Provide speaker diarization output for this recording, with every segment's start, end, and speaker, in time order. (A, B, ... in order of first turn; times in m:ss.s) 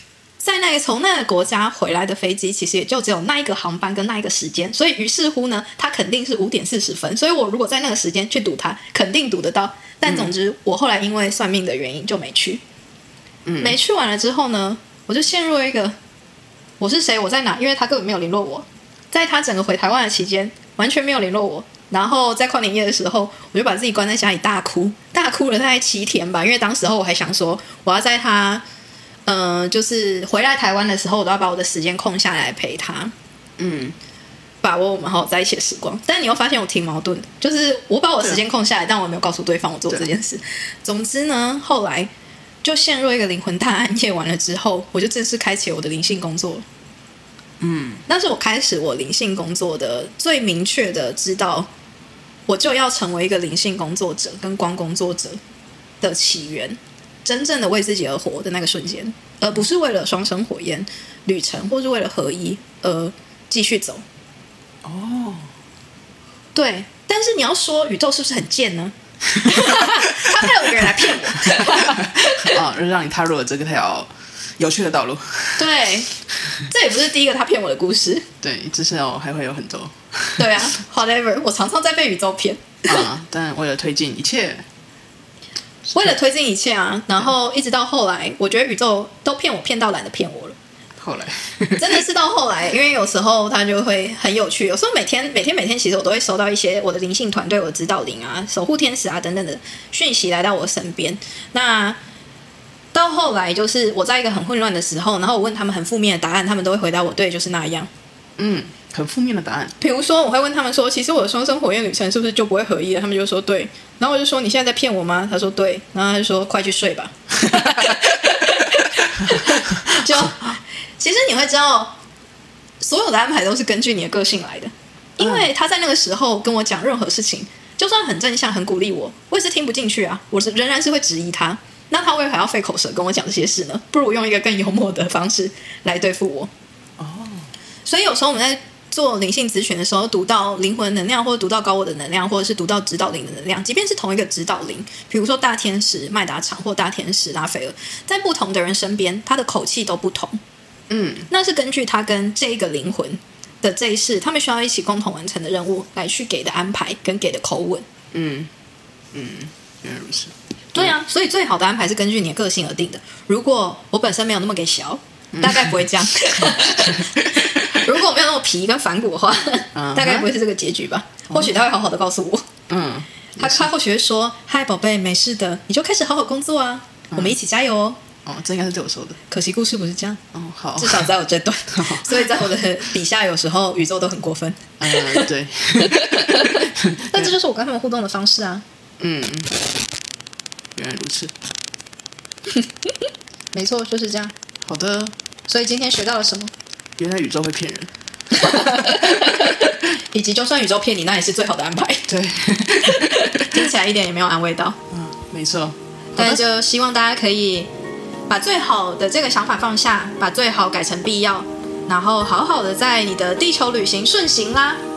0:00.4-0:12.6 A
0:10.0-0:10.3 B
0:13.4-0:13.8 B
0:13.6-0:16.0 A
0:16.8-0:28.6 A
0:29.2-0:33.1 A
0:33.6-0:34.0 B
0:34.6-0:42.1 A
0:42.6-0:46.6 A
0:47.6-0:48.0 B
0:48.1-0:51.7 A
0:52.5-0:55.4 A
0:56.0-1:04.0 A
1:04.8-1:05.5 B
1:06.5-1:12.6 A
1:09.5-1:09.8 B
1:11.6-1:15.7 B
1:15.6-1:16.1 A
1:16.7-1:18.2 A
1:18.4-1:20.6 B
1:20.4-1:23.1 A
1:22.9-1:24.6 B
1:25.9-1:30.6 A
1:31.0-1:32.0 B
1:31.8-1:42.0 A
1:42.9-1:47.9 A
1:48.4-1:49.8 B
1:49.8-2:01.9 A
2:02.8-2:16.5 A
2:05.2-2:05.5 B
2:17.0-2:17.5 B
2:17.8-2:30.4 A
2:30.9-2:31.3 B
2:31.3-2:37.8 A
2:38.1-2:38.5 B
2:39.1-2:41.0 B
2:40.7-2:52.4 A
2:45.3-2:47.8 B
2:49.7-2:50.3 B
2:52.7-2:53.7 B
2:53.4-2:58.0 A
2:58.2-2:59.2 B
2:59.3-3:00.2 A
3:00.3-3:01.1 B
3:00.8-3:05.3 A
3:01.7-3:02.2 B
3:04.8-3:07.3 B
3:05.8-3:08.6 A
3:09.0-3:09.5 B
3:10.8-3:11.3 B
3:13.5-3:14.3 A
3:14.6-3:15.1 B
3:15.5-3:16.5 A
3:17.0-3:17.9 B
3:18.3-3:22.1 A
3:18.4-3:19.2 B
3:22.1-3:23.5 B
3:22.9-3:24.8 A
3:24.9-3:26.4 B
3:26.2-3:27.7 A
3:28.3-3:34.8 A